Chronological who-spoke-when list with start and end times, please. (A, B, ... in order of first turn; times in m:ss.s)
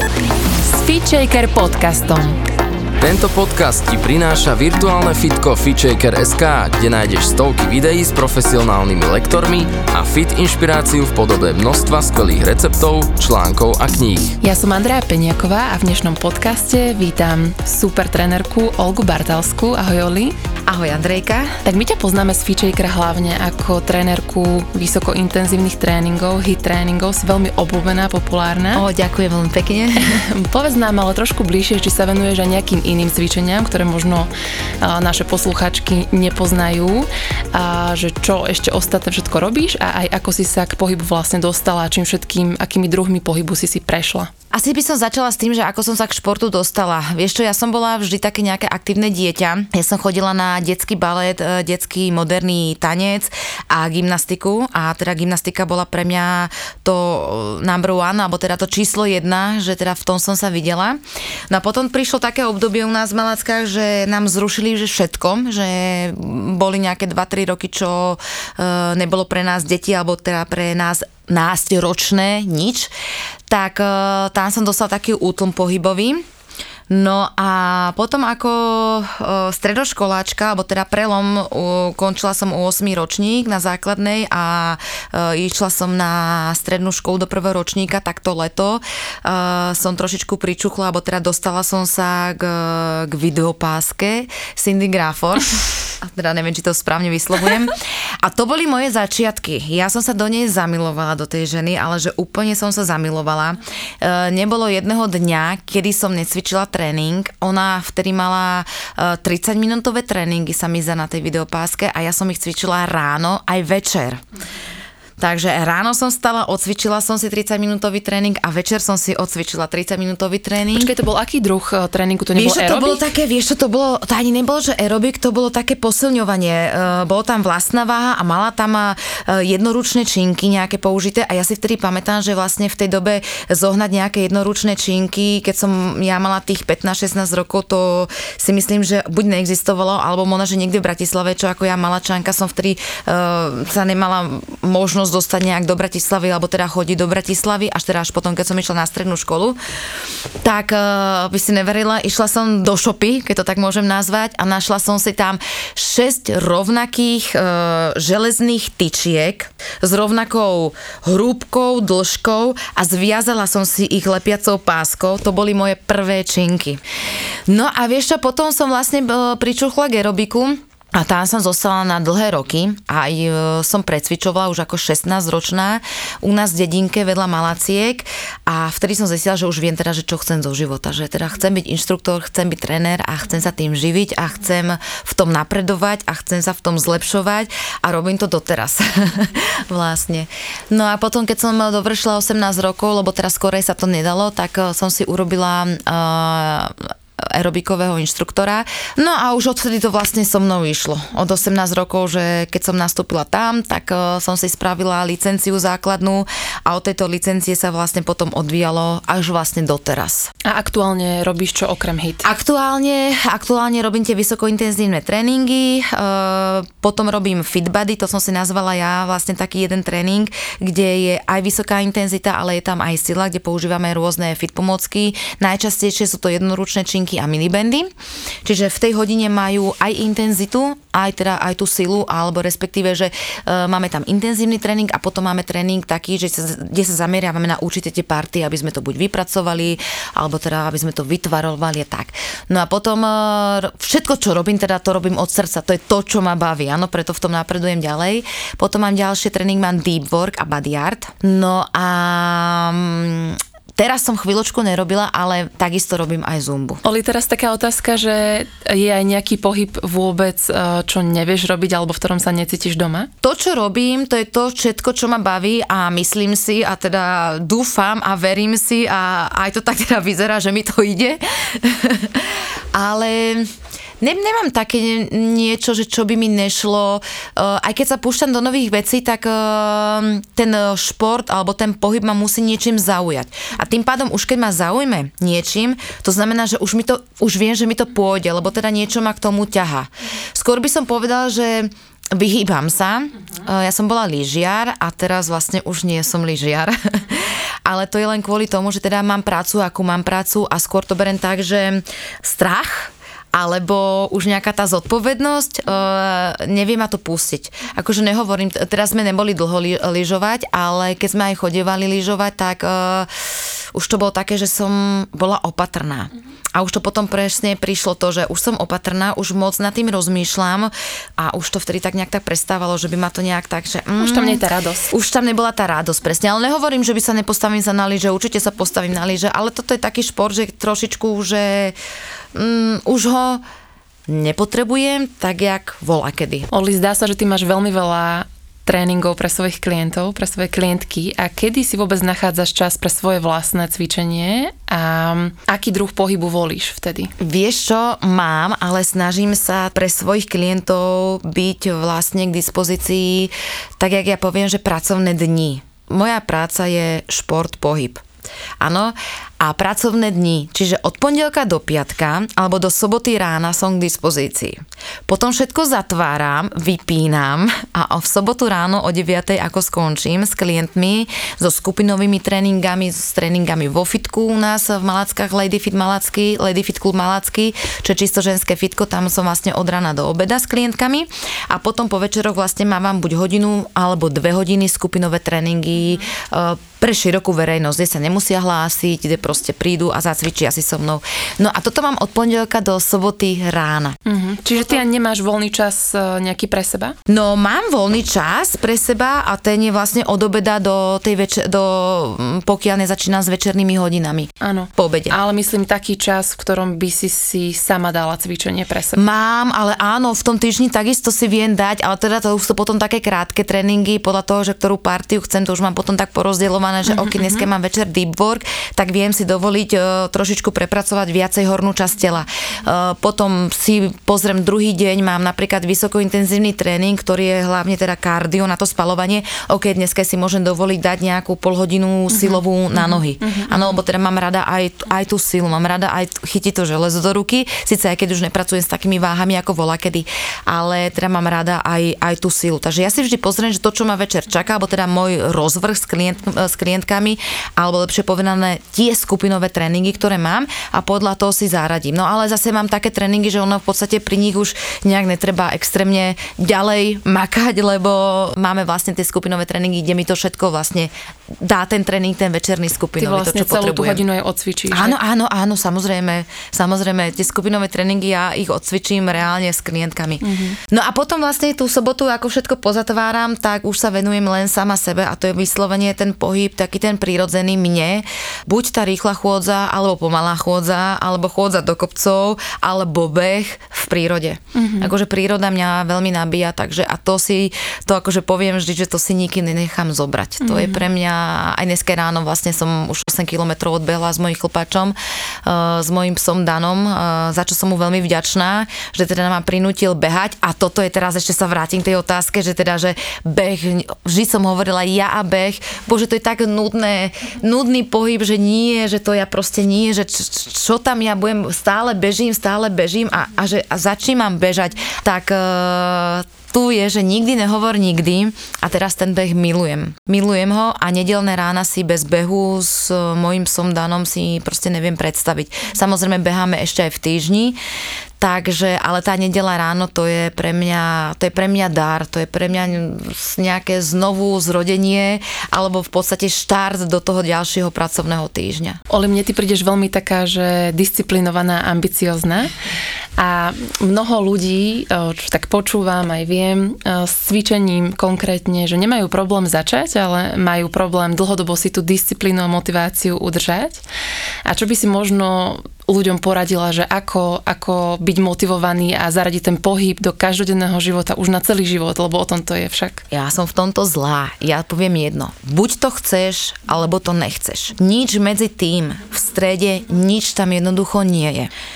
0:00.6-0:02.4 A
0:03.0-0:14.4 B
0:14.4-0:20.4 A
0:20.7-0:21.6 C
0:21.6-0:28.9 A
0:28.7-0:30.2 C
0:30.0-0:34.3 A
0:34.8-0:44.3 A
0:44.5-1:01.0 C
1:01.5-1:12.9 C
1:13.5-1:16.2 C
1:16.9-1:54.2 C
1:55.2-2:00.9 C
2:00.7-2:03.1 A
2:02.4-2:29.6 C
2:30.4-2:46.8 C
2:47.5-3:30.3 C
3:30.4-3:32.3 A
3:32.2-3:47.9 C
3:48.4-4:16.8 C
4:16.8-4:23.1 A
4:23.2-5:31.8 C
5:24.0-5:24.9 A
5:32.3-5:33.4 C
5:34.1-5:36.5 C
5:36.5-5:47.1 A
5:47.2-5:58.0 C
5:58.6-6:34.0 C
6:34.1-6:37.0 A
6:37.1-6:45.2 C
6:44.4-6:49.0 A
6:48.9-7:44.0 C
6:56.9-6:57.4 A
7:12.1-7:13.6 A
7:43.0-7:45.0 A
7:44.7-8:47.6 C
7:50.2-7:50.6 A
8:04.6-8:04.9 A
8:10.4-8:10.8 A
8:48.2-8:58.8 C
8:58.9-9:02.5 A
9:03.2-9:13.8 A
9:14.4-9:23.0 A
9:23.1-9:31.5 C